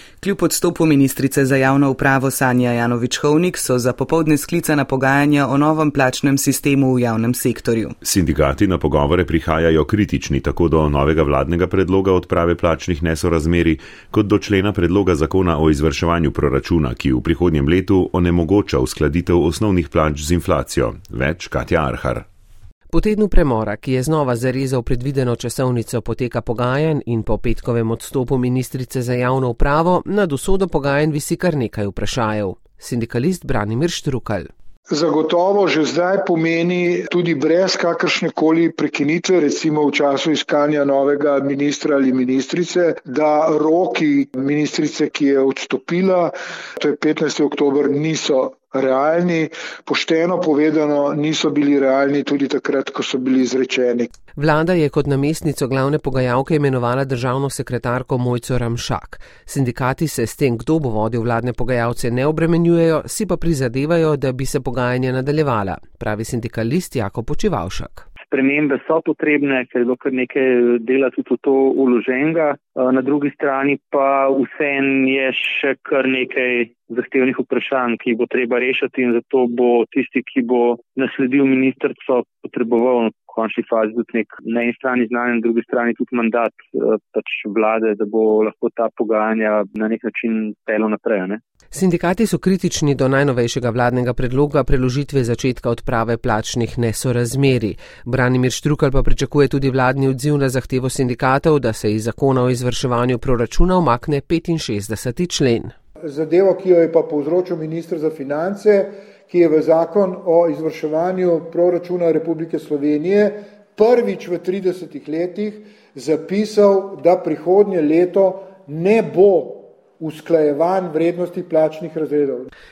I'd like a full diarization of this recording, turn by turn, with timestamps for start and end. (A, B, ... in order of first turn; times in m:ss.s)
0:00.2-0:08.0 A
0:08.0-0:22.3 B
0:22.9-0:34.5 C
0:34.9-0:54.1 D
0:54.4-1:08.1 C
1:08.3-1:31.4 E
1:31.7-1:45.7 C
1:46.0-2:02.5 D